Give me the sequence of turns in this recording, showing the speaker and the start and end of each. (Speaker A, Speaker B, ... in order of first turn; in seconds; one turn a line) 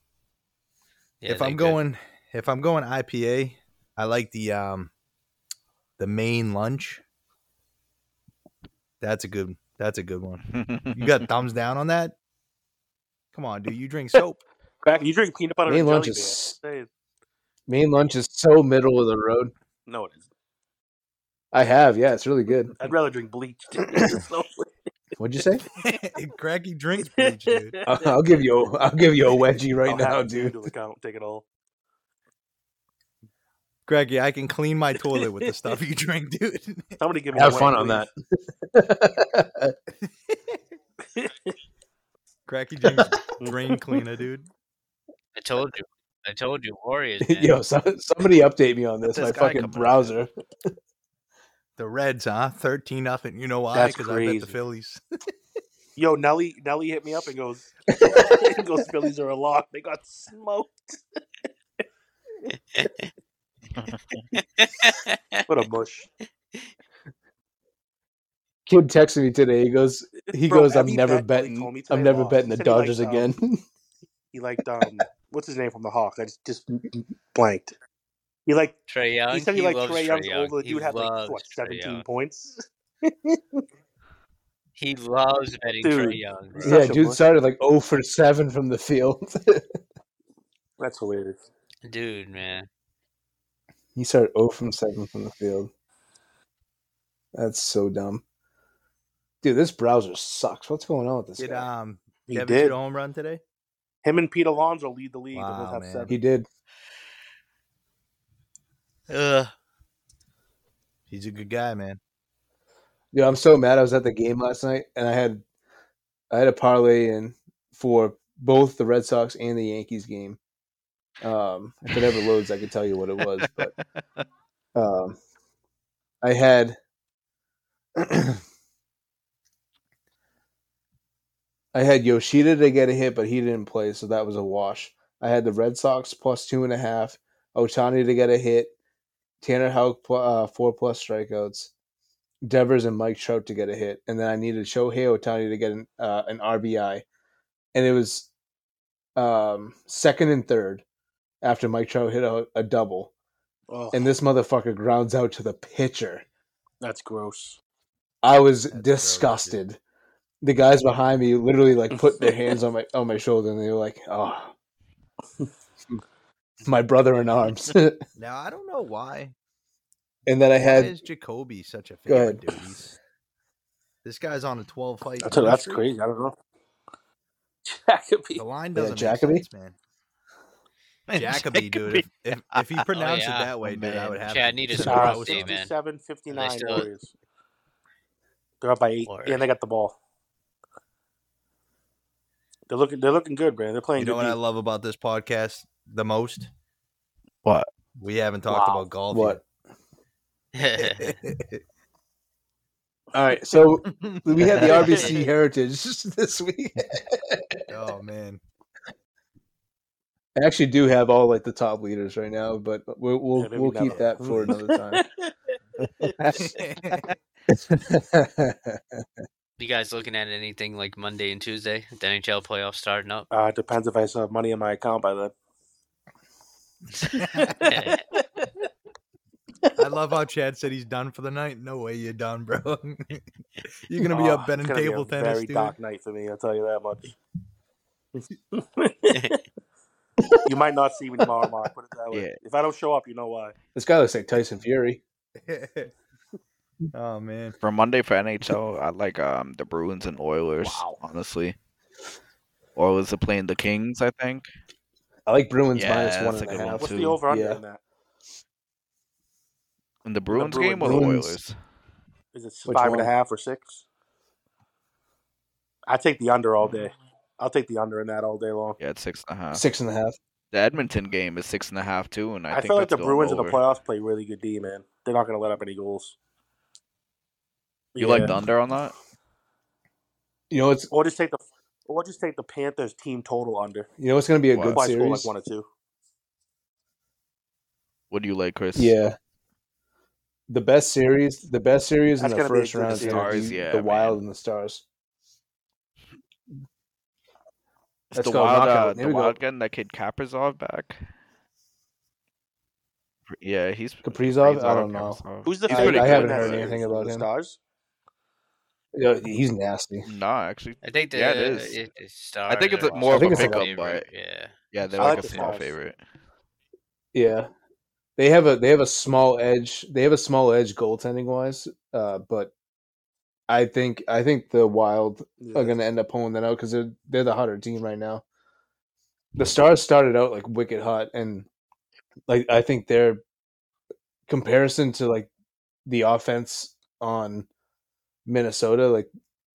Speaker A: 1.2-1.8
Speaker B: 1.3-4.9
Speaker B: 6.0-7.0
Speaker B: 9.0-12.2
Speaker C: 10.5-11.2
Speaker B: 13.3-14.4
Speaker D: 14.8-16.9
Speaker E: 15.7-16.6
Speaker E: 17.7-19.5
Speaker D: 19.9-20.3
Speaker E: 21.5-22.8
Speaker D: 22.8-24.7
Speaker E: 23.8-24.2
Speaker E: 25.2-25.6
Speaker B: 25.8-27.8
Speaker D: 27.0-28.1
Speaker E: 27.9-30.7
Speaker D: 29.9-31.4
Speaker B: 33.9-37.7
Speaker D: 37.0-38.1
Speaker E: 37.3-38.1
Speaker E: 38.7-39.7
Speaker B: 40.0-40.4
Speaker D: 41.0-41.5
Speaker B: 42.5-44.5
Speaker D: 43.4-44.0
Speaker A: 45.4-47.5
Speaker E: 47.2-50.3
Speaker C: 49.1-50.2
Speaker B: 51.8-55.0
Speaker D: 53.7-54.6
Speaker D: 56.0-61.0
Speaker E: 58.0-58.4
Speaker A: 62.8-63.0
Speaker C: 63.8-64.3
Speaker A: 64.3-65.4
Speaker D: 65.5-66.1
Speaker E: 68.7-73.6
Speaker D: 70.5-73.3
Speaker D: 74.3-77.8
Speaker D: 78.5-78.8
Speaker A: 78.9-82.0
Speaker D: 79.3-83.4
Speaker A: 84.8-86.7
Speaker D: 85.8-87.2
Speaker E: 86.6-89.7
Speaker D: 90.8-91.4
Speaker A: 91.8-92.7
Speaker E: 94.0-95.7
Speaker E: 97.3-98.2
Speaker E: 99.4-101.7
Speaker B: 101.4-103.4
Speaker D: 102.3-102.8
Speaker D: 104.0-106.2
Speaker B: 105.3-106.2
Speaker E: 106.1-106.5
Speaker A: 109.1-109.5
Speaker B: 111.1-112.0
Speaker E: 113.1-115.4
Speaker E: 116.3-120.4
Speaker E: 121.2-123.7
Speaker C: 123.4-123.7
Speaker E: 124.8-125.2
Speaker E: 126.2-126.8
Speaker E: 128.0-128.4
Speaker E: 131.7-138.7
Speaker E: 139.4-141.7
Speaker E: 142.4-147.0
Speaker E: 147.7-148.3
Speaker E: 149.2-150.8
Speaker E: 151.4-153.1
Speaker D: 153.7-154.1
Speaker E: 153.9-156.2
Speaker D: 156.8-157.6
Speaker E: 158.2-159.8
Speaker B: 158.7-159.6
Speaker E: 160.4-164.5
Speaker D: 162.2-162.5
Speaker E: 166.7-168.1
Speaker B: 168.2-169.3
Speaker E: 170.3-170.9
Speaker B: 170.6-173.0
Speaker E: 172.1-172.5
Speaker B: 174.0-175.8
Speaker D: 175.2-176.3
Speaker D: 177.7-178.4
Speaker B: 178.3-179.8
Speaker E: 178.8-179.4
Speaker C: 181.1-182.9
Speaker B: 181.2-185.5
Speaker A: 182.9-183.5
Speaker C: 183.6-184.2
Speaker A: 184.2-185.7
Speaker D: 184.8-187.1
Speaker A: 186.3-186.9
Speaker D: 188.6-190.0
Speaker A: 189.1-189.4
Speaker D: 192.7-194.4
Speaker B: 194.0-196.5
Speaker B: 198.0-199.4
Speaker D: 198.5-198.9
Speaker E: 199.1-199.4
Speaker A: 200.6-201.2
Speaker B: 200.8-201.6
Speaker E: 203.1-207.6
Speaker B: 203.8-205.1
Speaker A: 204.5-205.2
Speaker D: 204.7-205.2
Speaker B: 207.7-208.4
Speaker E: 210.4-215.1
Speaker D: 213.4-216.4
Speaker B: 213.8-214.5
Speaker B: 216.4-217.1
Speaker E: 217.5-219.0
Speaker A: 219.6-223.3
Speaker D: 223.3-225.3
Speaker B: 227.2-227.9
Speaker A: 227.6-228.0
Speaker B: 229.8-233.2
Speaker B: 233.9-235.8
Speaker D: 234.1-237.1
Speaker D: 238.2-239.4
Speaker D: 240.5-243.6
Speaker C: 242.1-242.4
Speaker E: 243.8-245.0
Speaker B: 245.4-245.9
Speaker B: 246.9-247.6
Speaker C: 247.6-251.6
Speaker D: 250.6-251.0
Speaker C: 252.8-254.5
Speaker E: 255.3-257.6
Speaker C: 255.8-257.2
Speaker D: 256.8-257.8
Speaker C: 260.1-261.6
Speaker D: 260.3-261.2
Speaker E: 260.8-261.4
Speaker D: 262.3-263.8
Speaker E: 262.7-263.1
Speaker D: 265.9-268.8
Speaker C: 268.8-269.6
Speaker E: 269.5-270.2
Speaker C: 270.5-273.6
Speaker D: 272.5-276.2
Speaker D: 277.9-278.4
Speaker C: 278.0-278.9
Speaker E: 280.5-280.9
Speaker D: 280.9-283.9
Speaker E: 284.0-285.3
Speaker C: 284.5-284.8
Speaker D: 284.7-285.7
Speaker C: 288.1-288.9
Speaker E: 288.8-289.2
Speaker E: 290.5-294.8
Speaker D: 292.2-293.5
Speaker C: 292.9-294.2
Speaker C: 298.1-301.0
Speaker E: 298.1-299.4
Speaker C: 303.3-306.8
Speaker E: 304.0-307.3
Speaker D: 305.4-307.6
Speaker E: 308.9-310.1
Speaker C: 310.1-311.8
Speaker A: 310.8-315.5
Speaker C: 312.5-314.1
Speaker D: 312.9-313.2
Speaker E: 313.1-313.7
Speaker C: 314.7-316.0
Speaker D: 315.0-315.7
Speaker E: 317.1-317.5
Speaker E: 318.2-322.5
Speaker E: 323.5-328.2
Speaker D: 325.4-325.8
Speaker E: 329.4-331.5
Speaker E: 332.3-333.2
Speaker E: 334.3-335.3
Speaker E: 335.9-337.5
Speaker E: 338.3-339.1